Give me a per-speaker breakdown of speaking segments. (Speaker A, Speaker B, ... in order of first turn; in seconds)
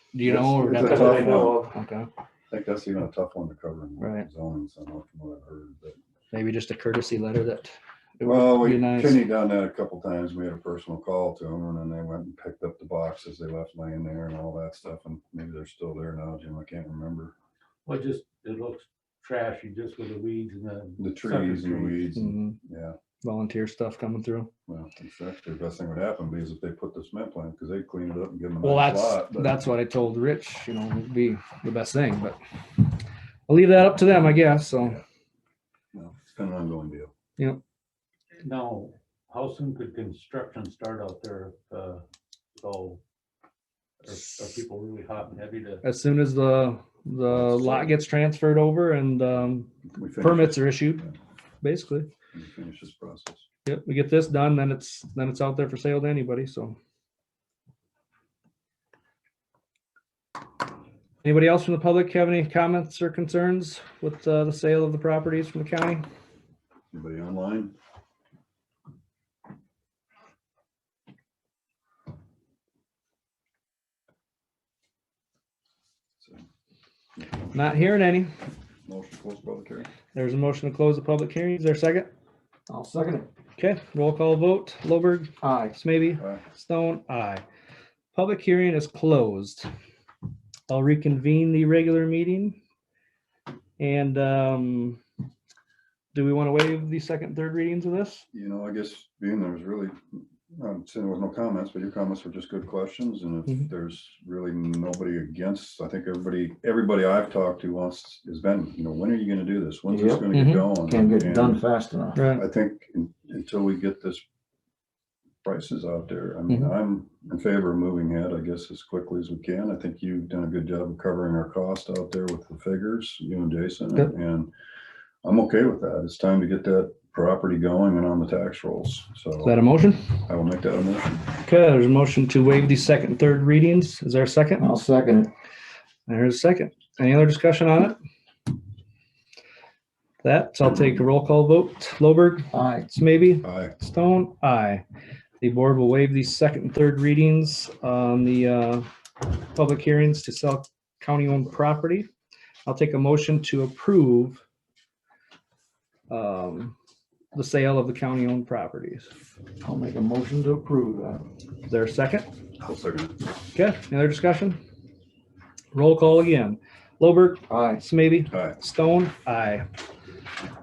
Speaker A: 0.1-2.1, 4.0-4.3, 6.3-9.2, 22.2-22.6, 23.2-24.5, 28.6-32.4, 33.5-35.0, 45.8-51.1, 51.6-52.1, 53.6-56.8, 61.2-66.0, 77.5-78.3, 80.1-82.1, 83.6-87.4, 88.1-89.7, 90.7-92.6, 93.8-95.0, 96.1-98.2, 110.3-110.6, 112.2-112.4, 129.4-130.1, 131.4-134.7, 136.1-138.0, 140.2-144.8, 145.4-148.9, 149.5-152.1, 152.7-154.4, 156.1-156.8, 157.3-159.1, 161.7-162.3, 163.5-164.6, 165.7-169.7
Speaker B: 0.2-1.7, 2.5-6.0, 8.2-17.3, 21.0-23.0, 24.7-29.6, 35.9-37.1, 47.3-47.9, 49.9-50.9, 52.3-53.5, 66.9-67.7, 78.9-79.9, 98.3-111.6, 112.3-114.2, 115.5-124.5, 125.2-129.6, 130.3-131.3, 143.4-143.7, 162.6-163.2, 168.3-168.6
Speaker C: 0.7-1.7, 82.7-83.3, 85.4-85.8, 109.9-112.2, 134.6-135.3, 142.5-142.9, 159.6-161.3, 167.5-167.8
Speaker D: 17.9-22.1, 38.4-43.0, 44.0-45.8